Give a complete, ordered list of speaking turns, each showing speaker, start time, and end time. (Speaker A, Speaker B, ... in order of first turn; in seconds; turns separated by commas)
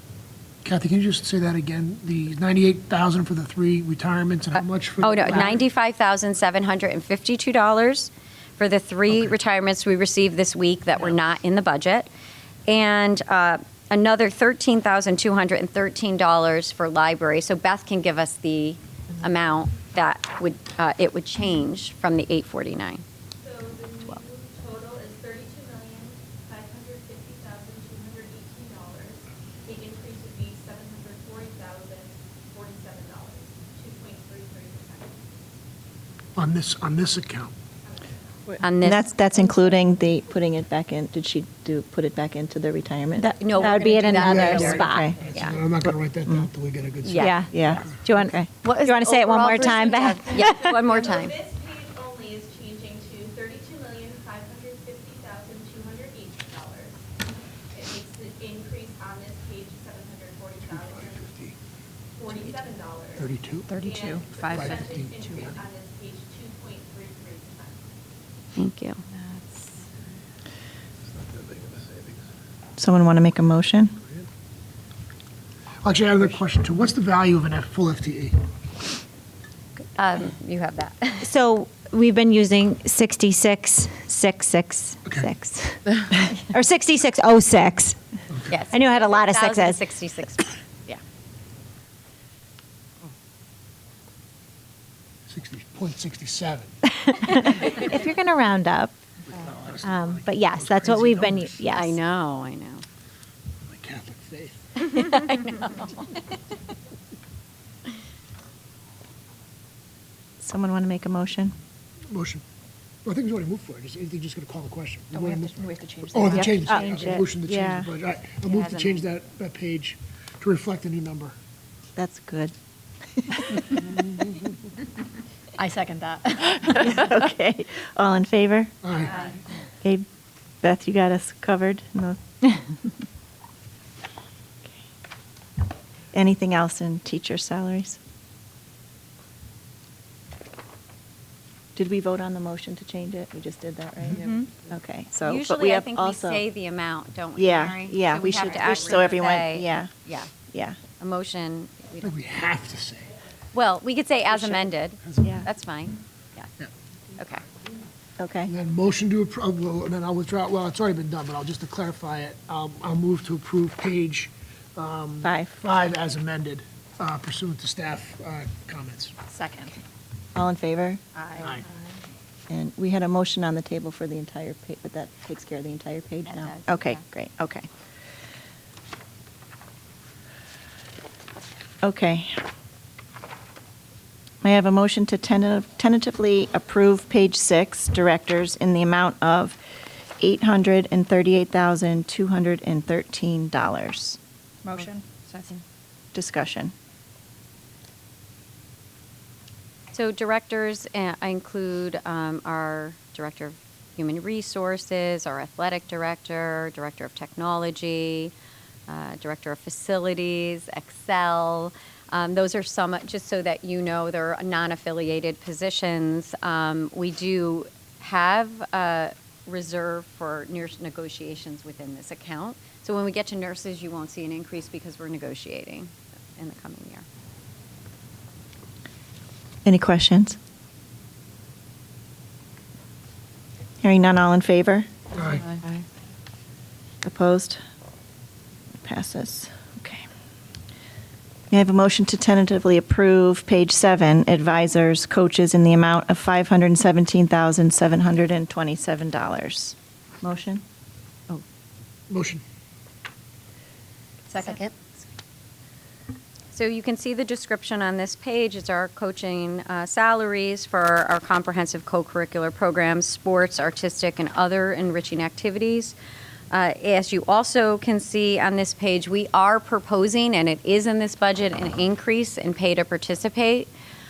Speaker A: 0.6-5.6, Speaker B: 4.6-12.1, Speaker B: 12.7-23.0, Speaker C: 23.4-35.3, Speaker A: 36.3-37.5, Speaker C: 37.8-38.5, Speaker B: 38.6-39.0, Speaker D: 38.8-43.4, Speaker E: 43.2-45.2, Speaker B: 43.4-45.6, Speaker A: 44.1-48.0, Speaker D: 44.9-45.2, Speaker B: 47.0-47.4, Speaker E: 47.1-50.8, Speaker D: 47.5-48.5, Speaker B: 48.6-51.3, Speaker C: 49.6-57.0, Speaker C: 57.7-61.3, Speaker A: 60.6-61.5, Speaker C: 62.1-63.3, Speaker A: 63.2-63.7, Speaker F: 63.7-64.8, Speaker C: 63.8-67.9, Speaker A: 64.4-65.6, Speaker B: 68.5-69.0, Speaker A: 71.1-72.2, Speaker D: 72.8-74.0, Speaker A: 75.8-78.4, Speaker B: 80.0-81.3, Speaker E: 81.2-88.0, Speaker B: 88.5-90.5, Speaker E: 88.7-89.8, Speaker A: 95.3-96.8, Speaker E: 96.9-98.9, Speaker A: 99.3-101.6, Speaker E: 99.8-102.0, Speaker B: 101.7-102.8, Speaker A: 103.7-104.6, Speaker B: 104.8-106.1, Speaker E: 104.9-105.5, Speaker D: 110.4-111.5, Speaker A: 112.1-112.4, Speaker A: 113.0-121.3, Speaker F: 115.1-116.4, Speaker D: 116.3-117.9, Speaker E: 116.6-117.1, Speaker B: 118.4-119.1, Speaker D: 122.0-122.5, Speaker D: 123.2-123.9, Speaker F: 125.6-126.2, Speaker B: 125.6-126.7, Speaker D: 126.7-128.7, Speaker A: 128.8-129.2, Speaker D: 130.6-132.8, Speaker D: 136.1-138.0, Speaker D: 141.8-146.4, Speaker E: 144.2-144.5, Speaker B: 145.2-150.3, Speaker D: 147.3-149.9, Speaker D: 150.5-150.8, Speaker B: 151.0-152.1, Speaker A: 152.0-153.1, Speaker B: 153.5-156.5, Speaker A: 155.0-155.4, Speaker D: 155.2-155.5, Speaker B: 157.2-157.4, Speaker D: 158.2-158.5, Speaker A: 158.5-169.2, Speaker D: 165.2-165.6, Speaker E: 169.3-169.7, Speaker D: 170.3-171.0, Speaker A: 171.4-171.6, Speaker D: 172.5-177.7, Speaker B: 176.3-177.0, Speaker D: 181.8-182.4, Speaker D: 184.4-189.6, Speaker D: 190.2-194.2, Speaker F: 194.8-195.6, Speaker D: 196.1-196.7, Speaker B: 199.9-208.3, Speaker B: 208.9-227.1, Speaker D: 229.6-230.4, Speaker D: 233.8-234.9, Speaker A: 235.1-235.5, Speaker D: 237.0-237.6, Speaker D: 238.8-240.0, Speaker D: 241.5-250.6, Speaker A: 252.1-252.4, Speaker B: 254.3-254.7, Speaker B: 256.5-265.9, Speaker B: 266.5-273.7